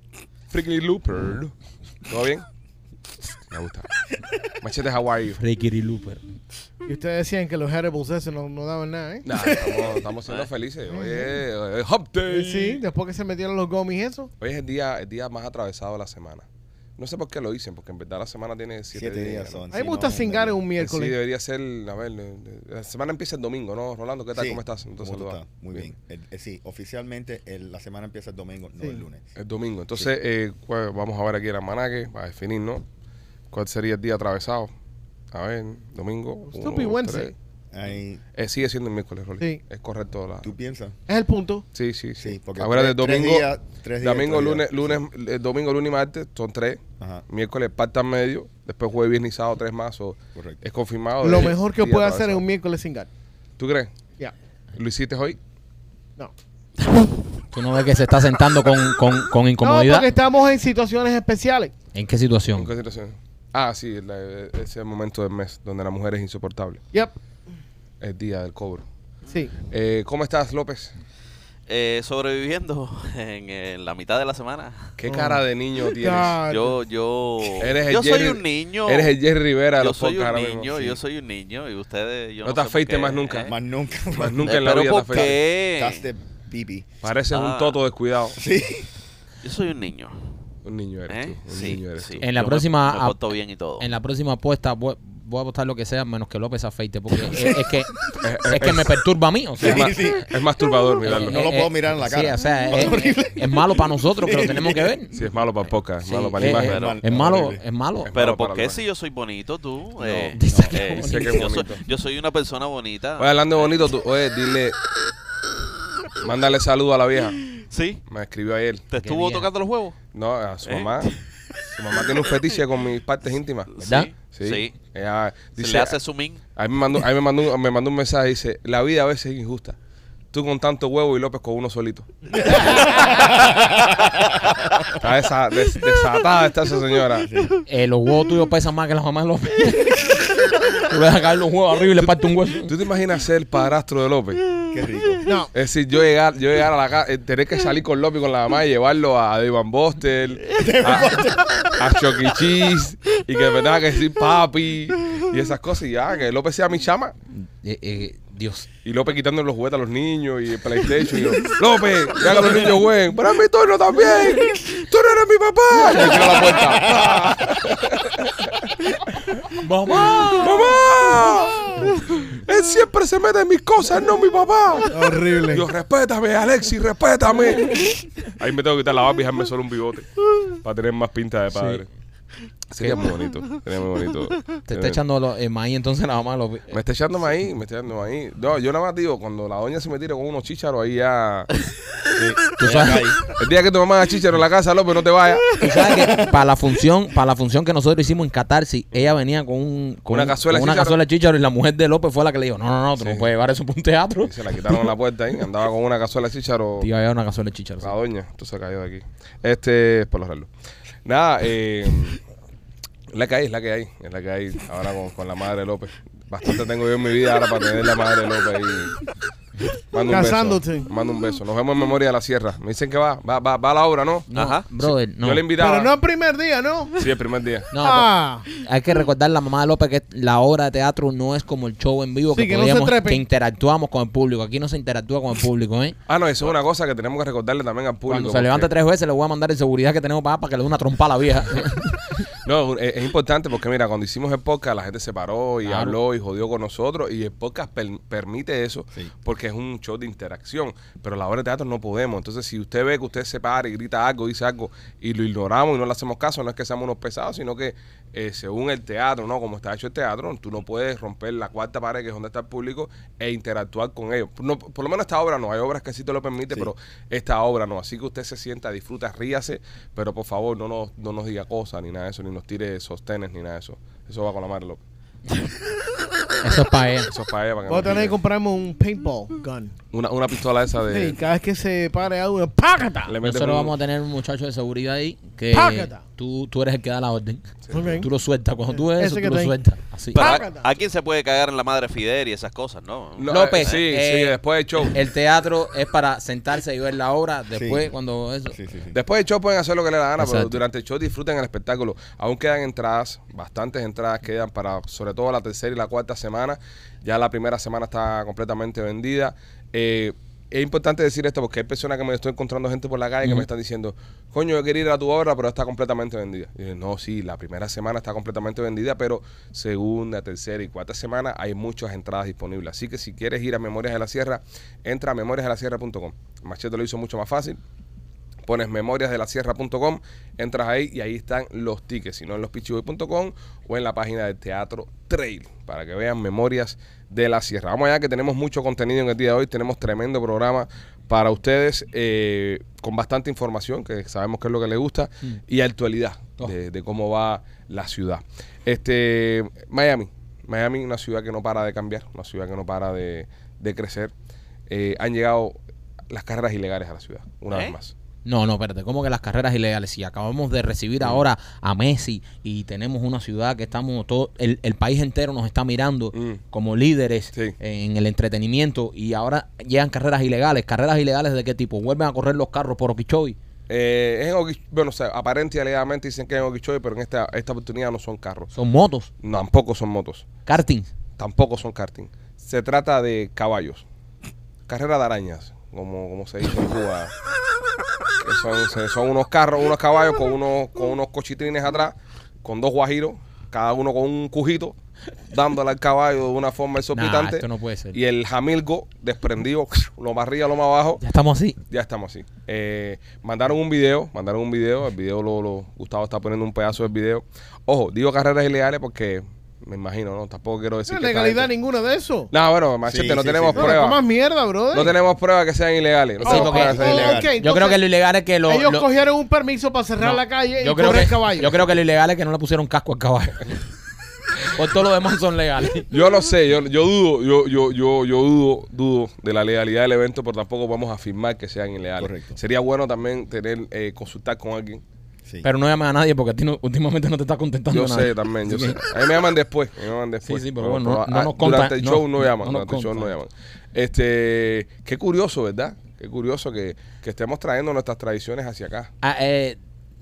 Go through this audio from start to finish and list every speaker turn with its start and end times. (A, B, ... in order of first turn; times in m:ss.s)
0:00.5-0:01.5 A
0:02.0-0:02.4 A
0:03.5-0:03.9 A
0:04.6-0:05.4 A
0:05.4-0:06.3 B
0:06.8-0:09.8 C
0:09.2-0:12.8 A
0:10.9-0:11.3 C
0:12.3-0:14.3 C
0:14.4-0:16.5 A
0:17.0-0:19.7 A
0:18.9-0:20.6 D
0:19.7-0:21.2 C
0:20.8-0:25.9 A
0:24.3-0:29.3 D
0:29.4-0:32.8 A
0:33.5-0:34.7 A
0:35.3-0:37.3 A
0:36.5-0:37.3 C
0:37.7-0:38.2 D
0:38.4-0:40.5 A
0:40.4-0:41.0 D
0:41.1-0:41.6 C
0:41.7-0:43.5 A
0:42.2-0:45.0 D
0:44.0-0:52.4 A
0:47.0-0:47.2 D
0:50.4-0:50.6 D
0:51.2-0:53.1 C
0:53.6-0:54.0 A
0:54.7-0:55.4 A
0:56.9-0:57.2 C
0:57.5-1:00.1 B
0:59.6-1:01.7 C
1:01.9-1:02.7 B
1:02.6-1:06.8 A
1:08.0-1:08.9 A
1:09.3-1:09.5 C
1:09.6-1:10.9 A
1:11.7-1:14.9 E
1:15.0-1:16.4 A
1:15.1-1:16.8 C
1:16.5-1:19.2 E
1:17.6-1:21.0 A
1:19.8-1:23.5 E
1:22.4-1:23.5 A
1:23.5-1:26.9 D
1:24.1-1:25.4 A
1:24.4-1:26.1 E
1:27.0-1:28.4 A
1:27.3-1:27.8 E
1:28.4-1:28.9 D
1:29.4-1:30.2 E
1:30.6-1:32.2 A
1:31.1-1:33.9 E
1:32.2-1:33.2 B
1:33.8-1:40.0 B
1:38.2-1:39.0 A
1:39.6-1:44.9 D
1:39.6-1:41.4 A
1:41.0-1:45.2 B
1:45.1-1:46.8 A
1:46.0-1:48.1 B
1:46.5-1:47.0 E
1:46.5-1:47.6 D
1:48.0-1:48.8 A
1:48.1-1:53.8 E
1:50.1-1:50.3 A
1:50.3-1:51.6 B
1:50.5-1:50.8 D
1:50.9-1:51.8 A
1:53.2-1:54.8 A
1:56.2-1:57.4 A
1:57.6-1:58.0 E
1:58.1-1:58.8 A
1:58.9-2:00.0 E
1:59.0-1:59.5 B
2:00.1-2:01.1 A
2:00.6-2:01.2 E
2:01.7-2:03.7 A
2:02.0-2:02.3 E
2:03.7-2:04.8 E
2:03.8-2:04.1 B
2:04.3-2:06.0 A
2:05.6-2:06.4 E
2:06.6-2:09.8 A
2:10.3-2:12.8 A
2:12.4-2:14.8 D
2:15.0-2:17.3 A
2:17.2-2:17.5 D
2:17.7-2:20.2 B
2:20.8-2:22.7 B
2:22.0-2:24.4 A
2:24.7-2:25.2 D
2:25.2-2:25.5 C
2:25.5-2:31.2 A
2:30.6-2:31.5 D
2:31.8-2:37.1 A
2:37.4-2:38.7 B
2:38.8-2:48.7 A
2:45.9-2:47.2 D
2:46.1-2:46.3 B
2:49.6-2:50.6 B
2:50.3-3:00.1 A
2:54.9-2:55.7 C
3:00.6-3:01.9 A
3:01.5-3:01.8 B
3:02.7-3:05.0 A
3:02.8-3:03.1 B
3:04.7-3:06.8 B
3:06.7-3:11.5 A
3:12.2-3:13.2 D
3:12.6-3:13.1 B
3:13.3-3:15.5 A
3:15.6-3:24.3 B
3:20.1-3:21.0 A
3:23.0-3:23.3 A
3:24.2-3:26.9 A
3:26.8-3:27.9 B
3:27.8-3:30.5 A
3:31.0-3:32.2 A
3:33.1-3:39.0 A
3:39.9-3:45.9 A
3:40.1-3:40.9 C
3:44.3-3:45.5 B
3:45.6-3:47.1 C
3:47.0-3:47.7 A
3:47.7-3:56.0 B
3:47.8-3:48.5 C
3:52.3-3:53.2 C
3:56.1-3:58.7 A
3:58.1-4:02.0 B
4:02.4-4:34.8 A
4:05.6-4:06.0 B
4:36.4-4:37.1 B
4:37.1-4:38.2 A
4:37.7-4:39.7 C
4:39.9-4:41.2 A
4:40.9-4:43.2 C
4:43.1-4:43.7 A
4:43.2-4:47.4 B
4:45.5-4:46.0 C
4:47.7-4:48.0 A
4:47.7-4:48.1 C
4:48.0-4:50.4 B
4:48.7-4:49.6 C
4:50.1-4:53.8 E
4:50.2-4:50.7 C
4:53.2-4:55.0 A
4:53.3-4:58.6 B
4:57.5-4:57.9 D
4:58.5-4:59.0 D
4:58.9-5:27.6 A
5:00.2-5:00.6 B
5:28.5-5:54.1 A
5:54.7-5:55.6 A
5:56.1-5:57.9 A
5:57.5-5:57.8 E
5:58.2-6:13.4 B
6:06.1-6:06.4 A
6:13.7-6:18.5 A
6:18.5-6:19.1 B
6:19.2-6:20.3 A
6:20.5-6:20.9 B
6:21.2-6:23.8 A
6:24.7-6:27.1 A
6:28.2-6:34.8 A
6:35.3-6:41.0 A
6:36.9-6:38.0 B
6:41.0-6:41.6 B
6:41.7-6:51.5 A
6:50.9-6:52.3 C
6:52.3-6:54.0 A
6:52.8-6:53.8 D
6:53.5-6:55.0 C
6:54.7-6:57.1 A
6:56.2-6:58.9 B
6:56.2-6:57.8 C
6:56.3-6:57.3 D
6:58.5-7:01.5 C
7:00.0-7:03.5 B
7:04.4-7:05.9 B
7:05.9-7:14.8 A
7:12.0-7:12.4 D
7:15.4-7:18.8 B
7:17.7-7:28.9 A
7:20.2-7:23.1 B
7:29.0-7:29.6 B